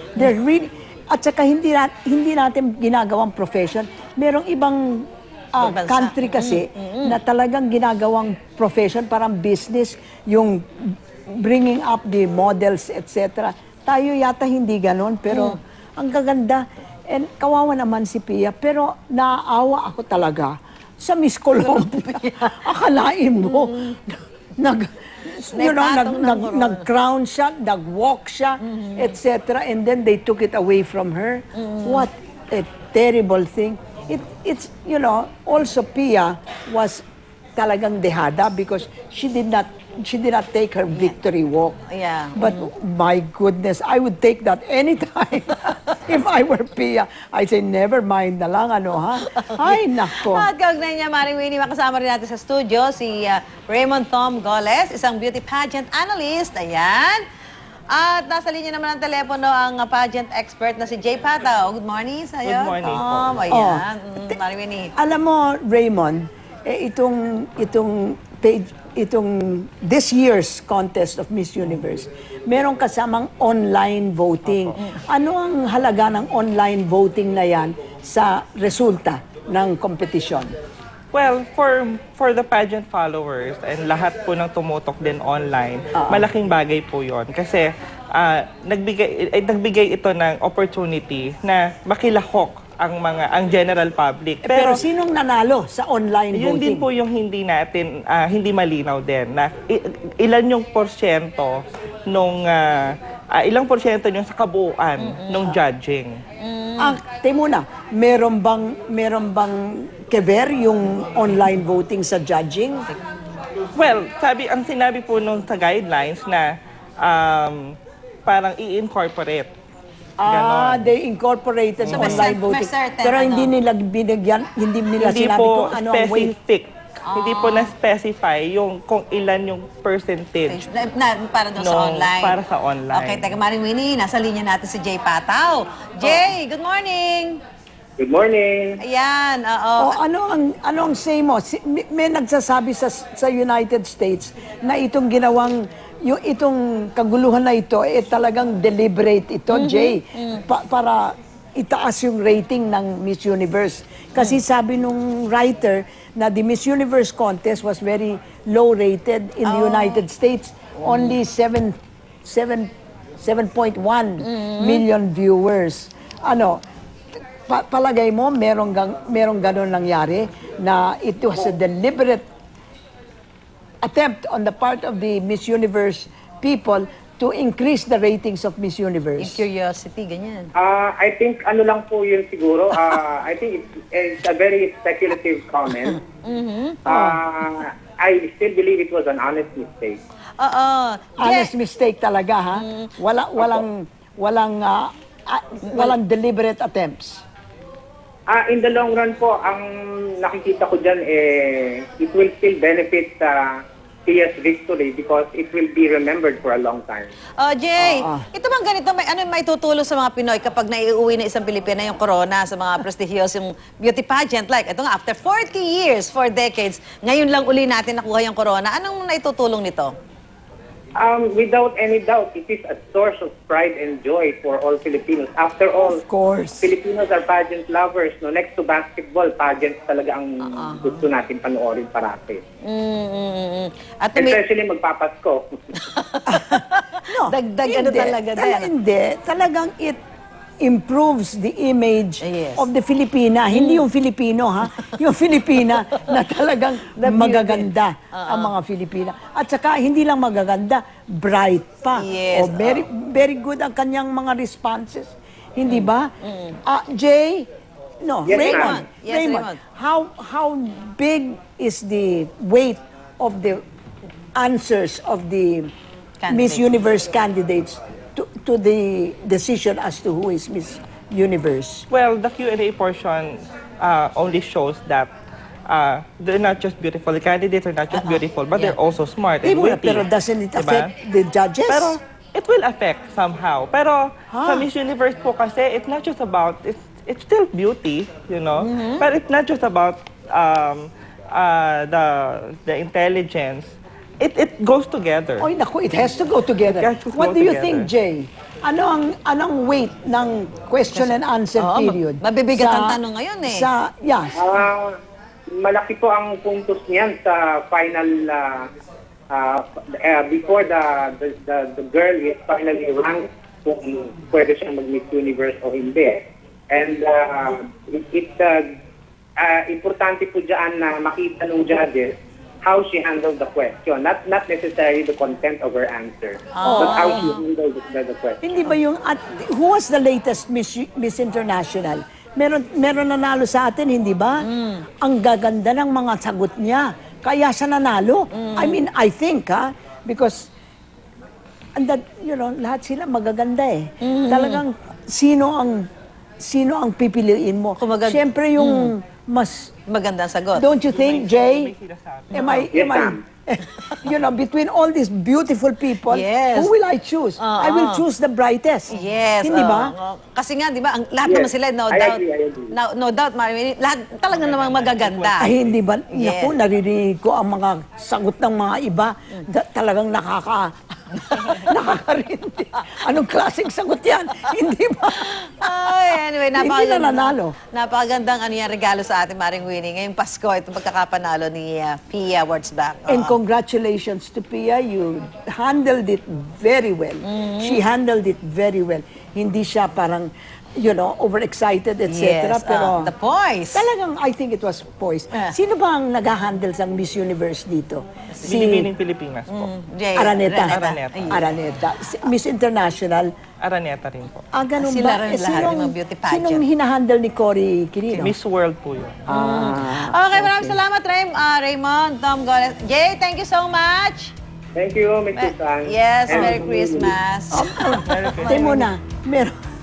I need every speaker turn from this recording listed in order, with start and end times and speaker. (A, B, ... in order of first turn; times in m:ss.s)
0:00.1-0:37.0 A
0:05.6-0:07.2 B
0:15.3-0:15.6 B
0:21.6-0:22.7 B
0:23.4-0:24.0 B
0:25.5-0:26.9 B
0:28.6-0:29.1 B
0:31.5-0:32.1 B
0:37.6-0:41.8 A
0:41.9-0:42.7 B
0:42.3-0:50.5 A
0:49.3-0:57.2 B
0:57.9-1:04.9 B
1:02.4-1:03.4 C
1:02.9-1:04.3 A
1:05.0-1:20.5 A
1:14.4-1:14.8 C
1:21.1-1:34.8 C
1:25.9-1:26.3 A
1:34.4-1:36.8 A
1:36.3-1:46.2 C
1:45.0-1:45.6 B
1:46.4-1:47.0 B
1:46.8-1:52.9 A
1:53.8-1:59.5 C
2:00.2-2:06.3 A
2:00.2-2:00.9 C
2:01.8-2:02.3 C
2:01.9-2:03.5 B
2:05.0-2:10.6 C
2:07.0-2:07.7 B
2:10.5-2:12.4 B
2:11.6-2:13.3 C
2:12.9-2:17.4 B
2:18.0-2:18.8 D
2:18.8-2:20.0 B
2:19.8-2:46.6 A
2:29.5-2:30.4 B
2:39.4-2:40.0 B
2:40.8-2:41.1 B
2:44.2-2:44.8 B
2:47.5-2:52.2 A
2:53.8-2:59.4 A
2:59.2-3:00.5 B
3:00.6-3:06.0 D
3:06.1-3:06.8 B
3:06.8-3:10.0 D
3:06.8-3:07.2 A
3:10.4-3:11.5 B
3:11.2-3:17.2 A
3:12.5-3:12.9 B
3:15.6-3:15.9 B
3:18.3-3:27.1 D
3:27.4-3:39.9 B
3:27.8-3:28.3 A
3:41.0-3:46.0 D
3:45.8-3:46.7 A
3:46.6-3:52.4 D
3:50.5-3:50.9 A
3:52.6-3:54.4 B
3:54.2-3:55.8 D
3:55.8-3:58.7 B
3:56.2-4:00.0 A
4:00.6-4:16.1 A
4:02.2-4:02.7 B
4:03.5-4:03.8 B
4:06.9-4:08.5 B
4:11.9-4:12.8 B
4:15.6-4:16.6 B
4:16.6-4:17.5 A
4:18.0-4:23.6 A
4:18.2-4:18.8 D
4:18.3-4:19.6 B
4:24.4-4:25.7 A
4:26.2-4:26.6 B
4:26.3-4:31.8 A
4:31.9-4:35.1 C
4:35.7-4:40.9 C
4:38.0-4:38.8 B
4:39.4-4:42.0 A
4:41.7-4:55.5 C
4:44.3-4:44.7 A
4:48.6-4:49.1 B
4:55.4-5:04.4 A
4:56.6-4:57.9 C
5:00.9-5:03.7 B
5:04.4-5:04.9 D
5:05.5-5:08.6 D
5:09.3-5:18.6 D
5:19.4-5:28.4 D
5:26.6-5:27.4 B
5:26.6-5:27.3 A
5:28.4-5:34.4 A
5:34.4-5:34.8 B
5:35.0-5:40.5 A
5:38.3-5:38.8 B
5:41.8-5:45.9 A
5:44.0-5:44.6 B
5:46.4-5:49.7 A
5:47.8-5:48.9 B
5:49.9-5:50.6 B
5:50.5-5:51.7 A
5:50.9-5:52.6 C
5:52.3-5:59.9 A
5:52.3-5:52.7 B
5:52.7-5:53.2 D
5:53.8-5:54.1 B
5:56.0-5:56.7 B
5:57.4-5:58.0 B
5:58.9-6:05.5 B
6:01.2-6:02.7 D
6:04.3-6:05.8 C
6:05.4-6:17.6 A
6:06.1-6:06.5 B
6:11.2-6:11.7 B
6:15.1-6:23.3 B
6:23.1-6:33.1 A
6:27.2-6:27.8 B
6:32.1-6:33.9 B
6:33.7-6:38.9 A
6:38.4-6:39.7 C
6:39.5-6:41.5 B
6:40.1-6:43.3 A
6:40.7-6:41.6 C
6:43.6-6:44.4 C
6:44.5-6:48.3 A
6:44.8-6:46.6 B
6:48.2-6:49.2 C
6:49.3-6:50.8 A
6:49.3-6:54.3 B
6:54.7-6:57.1 D
6:55.4-6:58.8 B
6:57.5-6:59.5 A
6:58.0-6:58.9 C